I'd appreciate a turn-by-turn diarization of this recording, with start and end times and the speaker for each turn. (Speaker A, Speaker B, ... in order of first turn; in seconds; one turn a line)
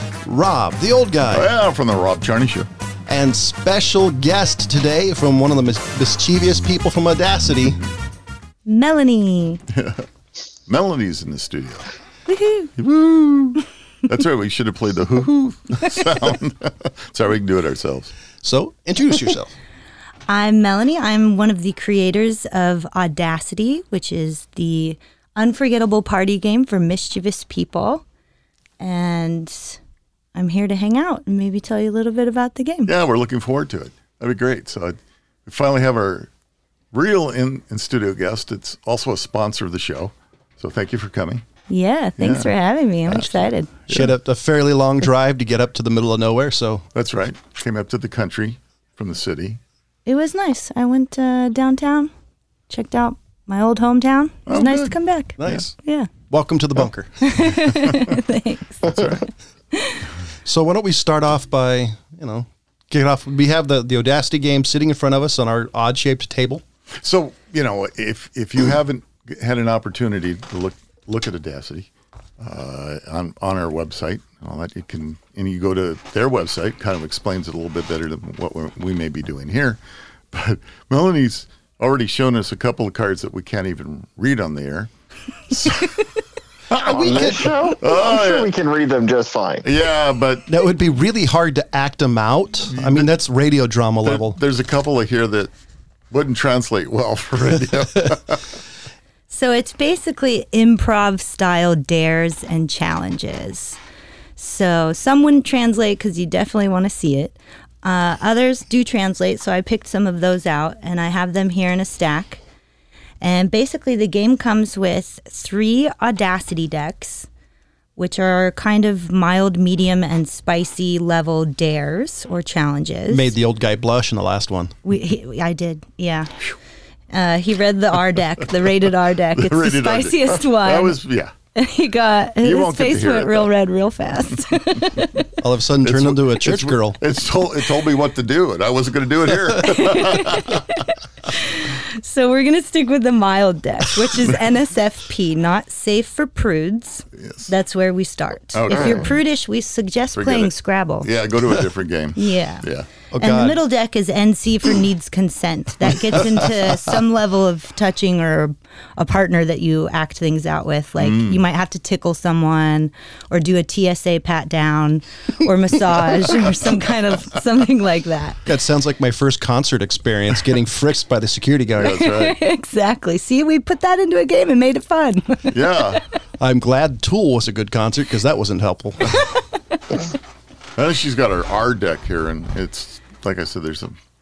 Speaker A: 0.2-1.5
Speaker B: 1.3-2.7
Speaker A: 3.1-7.8
Speaker C: 8.7-9.6
Speaker B: 9.7-10.1
Speaker B: 10.7-11.9
Speaker C: 12.3-12.7
Speaker B: 12.8-18.1
Speaker A: 18.4-19.5
Speaker C: 20.3-28.0
Speaker C: 28.8-29.8
Speaker C: 30.4-32.9
Speaker B: 32.9-36.3
Speaker B: 36.9-41.5
Speaker C: 41.7-43.7
Speaker B: 42.2-42.5
Speaker B: 43.1-44.1
Speaker A: 43.9-46.9
Speaker B: 46.9-49.6
Speaker C: 50.1-52.1
Speaker C: 52.7-56.1
Speaker B: 54.5-55.0
Speaker A: 55.4-55.8
Speaker A: 56.3-57.3
Speaker C: 57.2-59.2
Speaker B: 58.8-59.2
Speaker C: 59.7-60.0
Speaker A: 60.5-66.6
Speaker B: 66.9-71.9
Speaker B: 72.4-79.8
Speaker B: 80.3-84.9
Speaker B: 85.5-86.0
Speaker B: 86.7-88.5
Speaker A: 86.8-87.7
Speaker D: 86.8-89.7
Speaker B: 89.6-90.5
Speaker A: 90.5-94.4
Speaker B: 92.7-93.1
Speaker B: 94.0-95.5
Speaker B: 96.1-98.6
Speaker C: 99.3-103.8
Speaker C: 104.4-112.4
Speaker C: 113.2-117.3
Speaker C: 118.0-123.3
Speaker A: 123.1-124.8
Speaker C: 124.9-126.3
Speaker C: 127.1-131.0
Speaker B: 129.3-131.3
Speaker C: 131.6-135.3
Speaker B: 132.4-133.5
Speaker A: 135.4-137.0
Speaker B: 135.8-140.7
Speaker C: 139.6-151.1
Speaker B: 147.2-147.5
Speaker B: 148.5-149.2
Speaker D: 148.7-149.1
Speaker B: 150.2-152.9
Speaker C: 152.2-152.7
Speaker A: 153.1-153.6
Speaker C: 153.2-168.4
Speaker B: 161.0-161.4
Speaker A: 168.5-172.1
Speaker B: 171.8-172.4
Speaker C: 171.8-176.0
Speaker B: 175.5-176.0
Speaker A: 176.4-179.2
Speaker B: 180.8-184.0